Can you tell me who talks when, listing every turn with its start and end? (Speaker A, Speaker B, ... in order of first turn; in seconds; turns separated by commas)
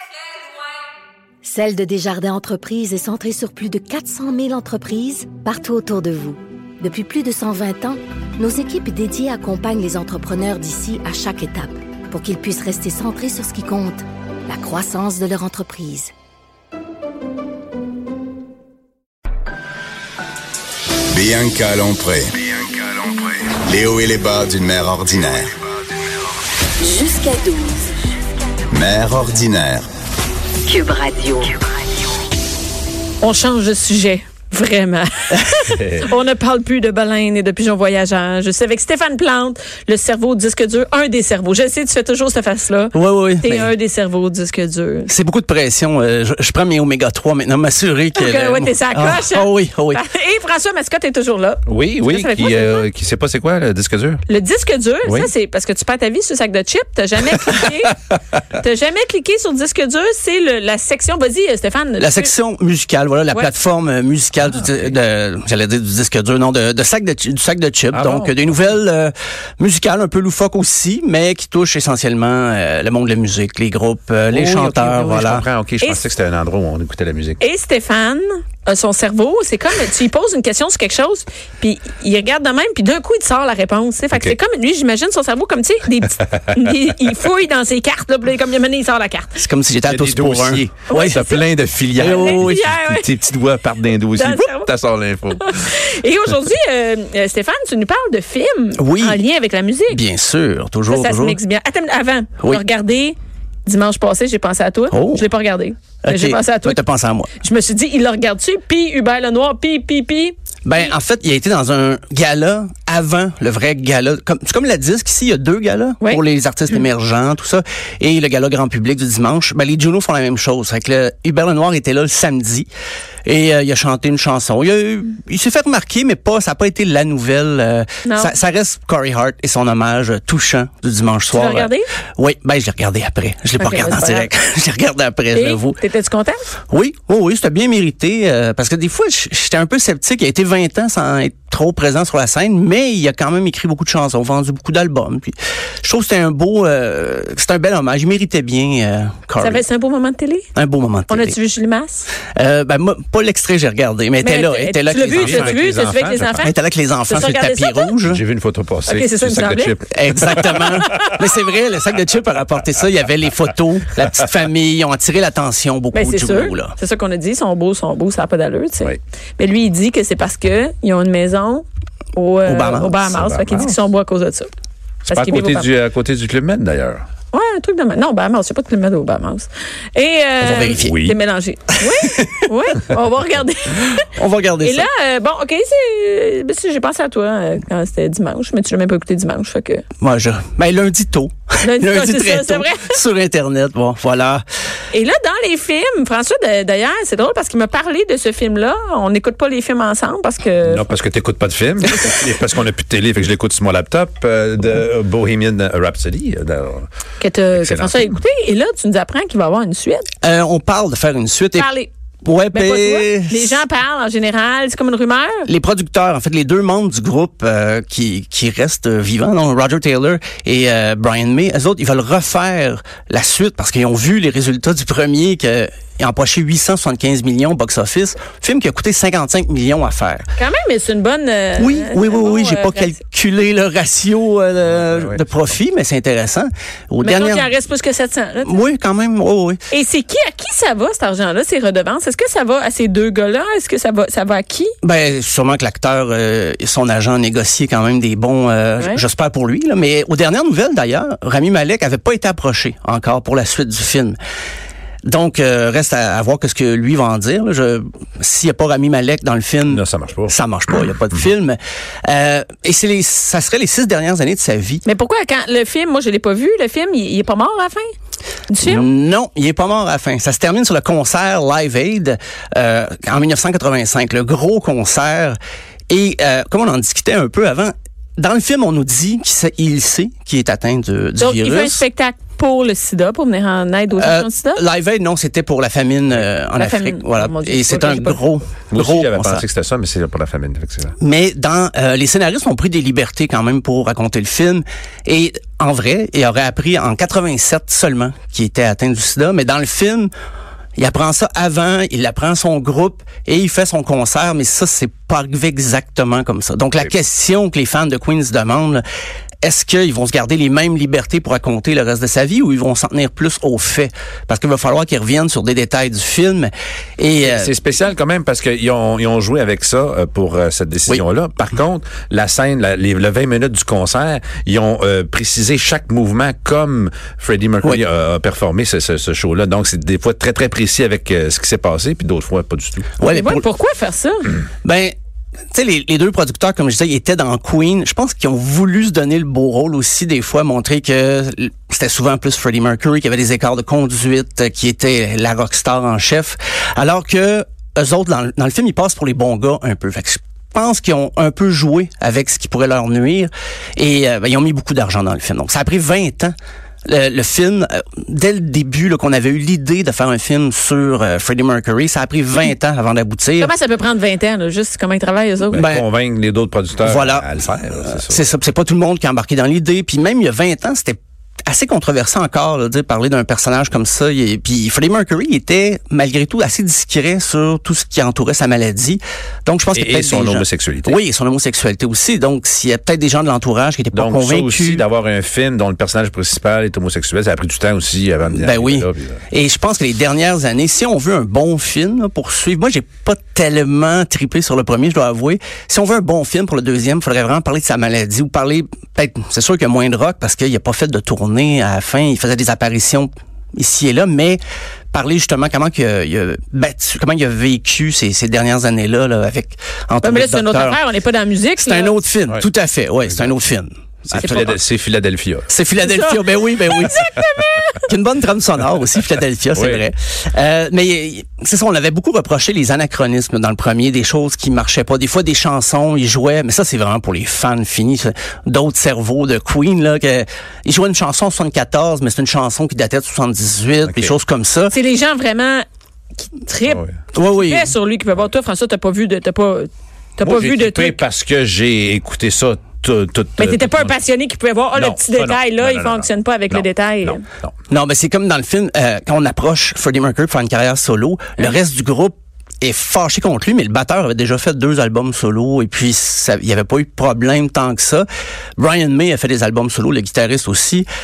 Speaker A: 1.4-16.1, Speaker B: 21.1-25.6, Speaker A: 26.8-27.8, Speaker B: 28.7-29.9, Speaker A: 30.7-31.6, Speaker C: 33.2-35.1, Speaker C: 35.6-42.9, Speaker D: 35.6-36.0, Speaker E: 42.9-43.7, Speaker C: 43.4-45.1, Speaker E: 45.1-50.0, Speaker C: 48.2-52.8, Speaker D: 51.6-54.2, Speaker C: 54.3-58.0, Speaker D: 55.1-55.3, Speaker C: 58.6-62.3, Speaker E: 62.0-75.5, Speaker D: 64.4-65.0, Speaker D: 67.9-68.8, Speaker D: 74.3-77.5, Speaker C: 77.4-89.3, Speaker D: 86.4-86.7, Speaker E: 89.3-91.2, Speaker D: 89.9-95.8, Speaker C: 90.8-91.5, Speaker E: 92.0-92.7, Speaker C: 92.0-93.0, Speaker C: 94.1-94.7, Speaker C: 95.4-100.0, Speaker E: 98.8-99.2, Speaker E: 99.9-101.4, Speaker C: 100.9-106.8, Speaker E: 102.4-102.6, Speaker E: 104.9-105.3, Speaker E: 106.0-107.3, Speaker C: 107.4-110.3, Speaker E: 110.7-122.7, Speaker E: 123.3-135.8, Speaker C: 128.1-128.3, Speaker C: 131.3-131.9, Speaker C: 133.6-134.3, Speaker C: 135.3-136.4, Speaker E: 136.7-149.6, Speaker C: 149.4-150.4, Speaker E: 150.6-151.4, Speaker C: 151.1-152.1, Speaker E: 152.2-155.6, Speaker C: 154.2-156.5, Speaker D: 155.2-156.4, Speaker E: 156.4-158.2, Speaker C: 157.1-158.0, Speaker D: 158.0-161.2, Speaker C: 158.9-159.8, Speaker E: 159.8-166.8, Speaker C: 165.9-171.7, Speaker C: 172.2-174.5, Speaker E: 172.5-173.8, Speaker D: 173.2-173.7, Speaker D: 175.1-177.1, Speaker C: 175.1-175.7, Speaker C: 177.3-181.9, Speaker E: 180.4-181.0, Speaker D: 180.8-181.2, Speaker E: 181.7-182.9, Speaker C: 182.5-184.1, Speaker E: 184.1-184.9, Speaker C: 184.6-189.8, Speaker E: 190.0-194.4, Speaker C: 191.6-193.0, Speaker C: 194.9-200.9, Speaker D: 200.6-206.9, Speaker C: 207.2-210.1, Speaker D: 207.5-208.1, Speaker E: 210.2-211.7, Speaker C: 211.6-211.9, Speaker E: 212.2-213.6, Speaker C: 212.6-215.5, Speaker E: 215.5-230.2, Speaker C: 230.4-232.9, Speaker E: 231.6-237.5, Speaker D: 234.8-235.2, Speaker C: 237.0-238.5, Speaker E: 238.4-239.6, Speaker C: 239.7-244.7, Speaker E: 244.8-254.2, Speaker E: 255.1-264.8, Speaker D: 259.7-260.3, Speaker C: 264.9-267.9, Speaker C: 268.5-268.8, Speaker E: 268.6-275.4, Speaker E: 275.9-281.8, Speaker C: 281.2-284.6, Speaker E: 284.0-289.4, Speaker C: 286.6-288.2, Speaker D: 288.7-290.9, Speaker E: 291.0-300.1, Speaker E: 300.8-308.8, Speaker E: 309.4-317.6, Speaker D: 317.2-333.0, Speaker E: 333.0-333.5, Speaker C: 333.1-334.4, Speaker E: 334.6-334.9, Speaker E: 335.5-356.3, Speaker E: 356.9-363.5, Speaker C: 363.4-365.6, Speaker E: 365.5-365.9, Speaker D: 365.5-368.2, Speaker E: 366.8-384.9, Speaker D: 379.7-381.0, Speaker D: 383.9-389.2, Speaker E: 388.3-404.4, Speaker E: 404.9-410.8, Speaker C: 410.0-411.9, Speaker E: 411.6-414.6, Speaker D: 414.1-415.5, Speaker E: 415.5-417.1, Speaker C: 415.8-417.8, Speaker E: 417.8-434.8, Speaker D: 419.5-419.8, Speaker D: 433.8-434.2, Speaker C: 434.7-435.6, Speaker C: 436.4-441.0, Speaker D: 436.7-437.0, Speaker E: 437.1-437.8, Speaker D: 440.2-444.0, Speaker C: 443.4-447.2, Speaker D: 444.8-447.6, Speaker E: 447.7-458.1, Speaker E: 458.6-460.9